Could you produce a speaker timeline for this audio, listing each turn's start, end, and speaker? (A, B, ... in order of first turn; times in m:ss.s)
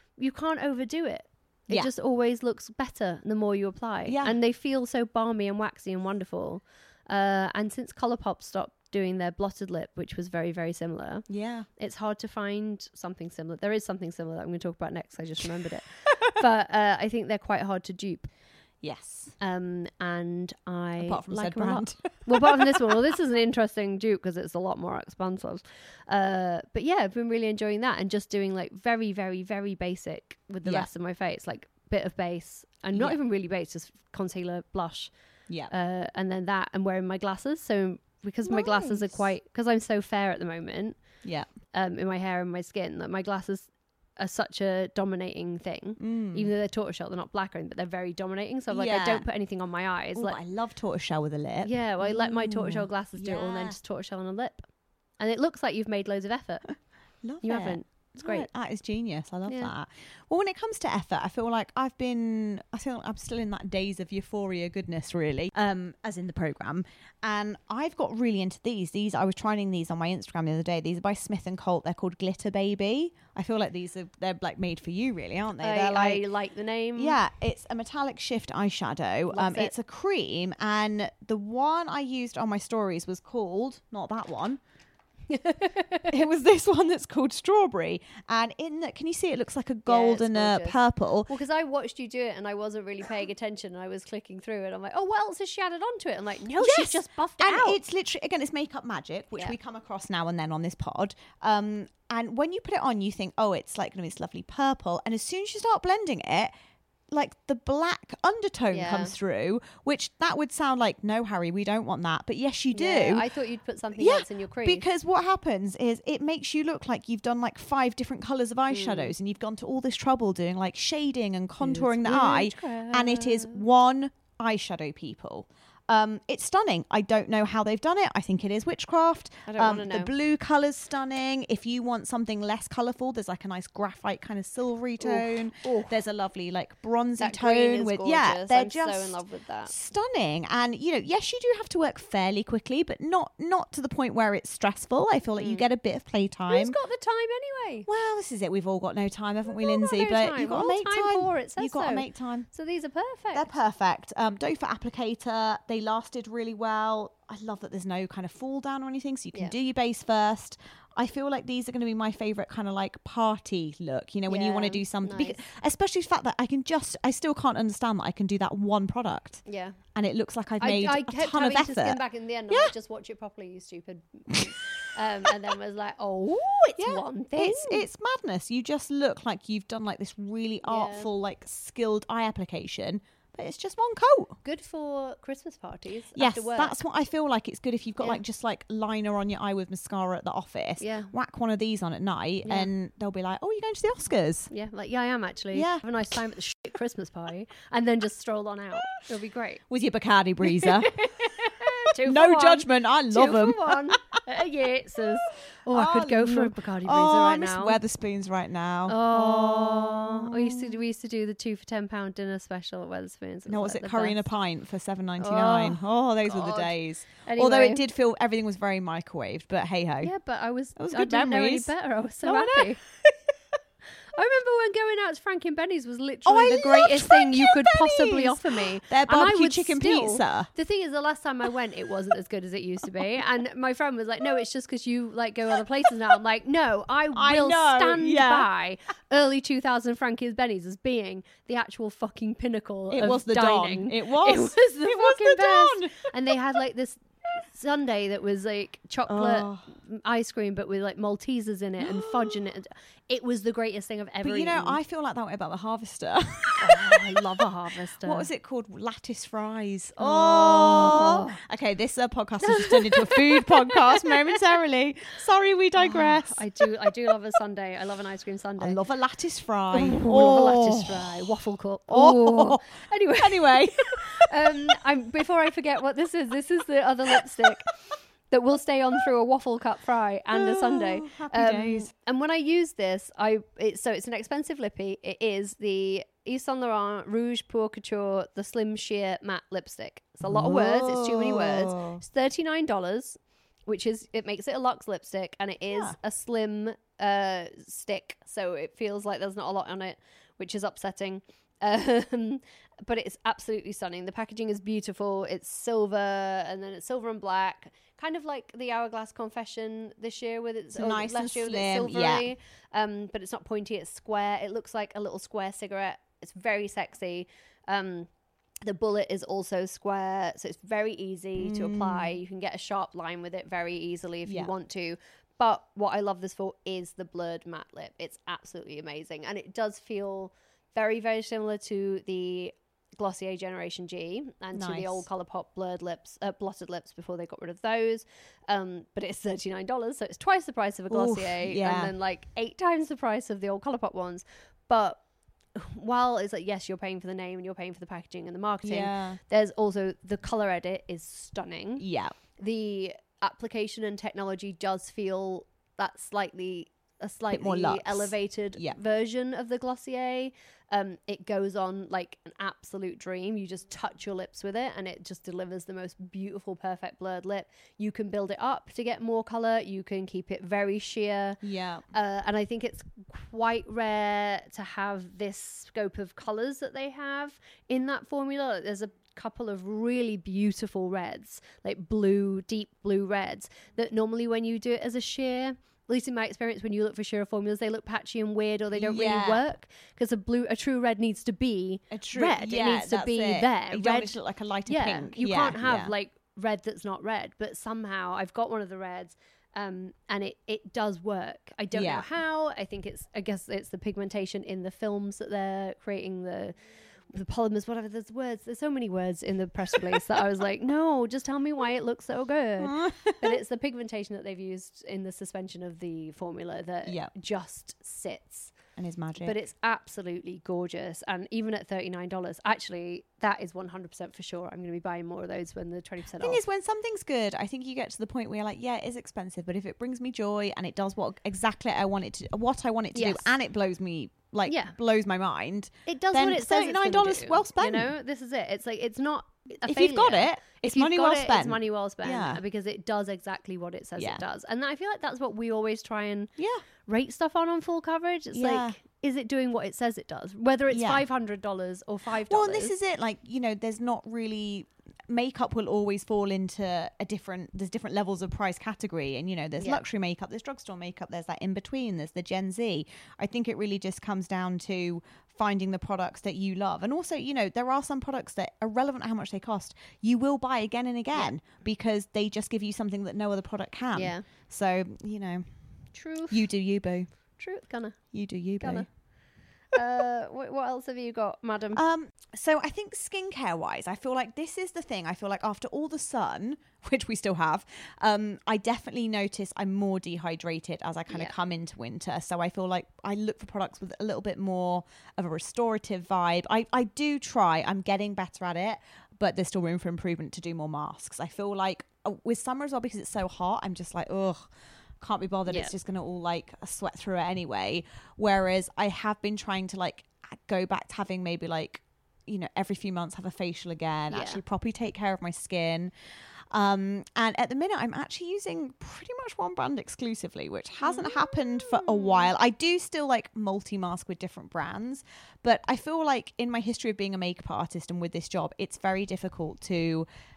0:00.2-0:11.2 A
0:04.1-0:04.4 B
0:11.3-0:11.7 B
0:11.8-0:18.3 A
0:18.8-0:19.4 B
0:19.4-0:35.1 A
0:21.0-0:23.0 B
0:30.6-0:30.9 B
0:35.7-0:41.0 A
0:38.4-0:39.3 B
0:41.7-0:50.4 A
0:46.0-0:46.5 B
0:48.7-0:49.3 B
0:50.2-0:53.8 B
0:51.6-0:54.7 A
0:55.2-0:56.7 A
0:57.2-1:16.2 B
0:57.4-0:58.5 A
0:59.5-0:59.7 A
1:15.6-1:17.2 A
1:17.0-1:24.6 B
1:19.3-1:19.7 A
1:25.3-1:26.1 A
1:26.1-1:31.3 B
1:29.9-1:37.8 A
1:36.6-1:46.5 B
1:47.1-1:53.3 B
1:48.7-1:49.1 A
1:52.7-1:54.9 A
1:54.0-2:26.8 B
1:58.7-1:59.1 A
2:01.6-2:03.6 A
2:09.5-2:10.1 A
2:15.0-2:16.0 A
2:17.2-2:19.7 A
2:25.4-2:25.7 A
2:26.5-2:27.9 A
2:27.9-2:32.5 B
2:29.5-2:33.5 A
2:33.3-2:49.4 B
2:44.3-2:45.4 A
2:49.5-2:49.8 A
2:50.0-2:52.7 B
2:50.6-2:57.9 A
2:56.8-3:04.4 B
3:00.7-3:01.1 A
3:04.4-3:06.8 A
3:06.2-3:14.5 B
3:10.8-3:11.1 A
3:12.4-3:12.7 A
3:14.5-3:19.6 A
3:15.5-3:16.2 B
3:19.7-3:24.2 B
3:20.4-3:27.8 A
3:25.7-3:30.8 B
3:28.9-3:34.3 A
3:33.5-3:40.1 B
3:35.2-3:37.8 A
3:40.0-3:42.8 A
3:40.8-3:43.1 B
3:44.1-4:14.8 A
3:46.3-3:50.5 B
3:57.1-3:58.5 B
4:02.9-4:06.0 B
4:09.1-4:09.7 B
4:11.8-4:12.5 B
4:14.2-4:26.7 B
4:16.6-4:18.3 A
4:20.0-4:21.4 A
4:22.4-4:24.4 A
4:25.8-4:28.8 A
4:28.6-4:31.2 B
4:29.7-4:37.7 A
4:31.9-4:34.7 B
4:37.2-4:37.6 B
4:38.3-5:18.1 A
4:40.3-4:41.9 B
4:50.2-4:52.0 B
4:55.7-4:56.0 B
5:10.7-5:12.3 B
5:18.6-5:45.0 A
5:21.4-5:22.1 B
5:24.2-5:24.5 B
5:34.6-5:35.1 B
5:40.9-5:41.9 B
5:45.6-5:51.8 A
5:48.6-5:49.2 B
5:51.8-5:52.1 B
5:52.4-6:46.6 A
5:57.3-5:58.8 B
6:11.4-6:11.9 B
6:28.7-6:29.4 B
6:31.9-6:35.9 B
6:41.7-6:42.1 B
6:47.1-6:58.5 A
6:52.6-6:53.4 B
6:56.9-6:57.1 B
6:58.8-6:59.4 B
6:59.2-7:06.4 A
7:06.2-7:17.9 B
7:12.9-7:13.3 A
7:14.5-7:14.8 A
7:15.9-7:26.3 A
7:19.6-7:22.4 B
7:26.4-7:26.6 B
7:26.9-7:32.7 A
7:28.3-7:28.8 B
7:30.7-7:31.0 B
7:32.3-7:55.4 B
7:53.9-7:54.3 A
7:55.9-7:56.5 A
7:56.3-7:57.1 B
7:57.4-7:58.0 A
7:58.1-7:58.9 B
7:58.6-7:58.9 A
7:59.7-8:01.8 A
8:01.8-8:24.5 B
8:11.1-8:11.3 A
8:25.0-8:35.9 B
8:25.5-8:25.7 A
8:34.1-8:34.4 A
8:36.5-8:50.1 B
8:40.8-8:42.3 A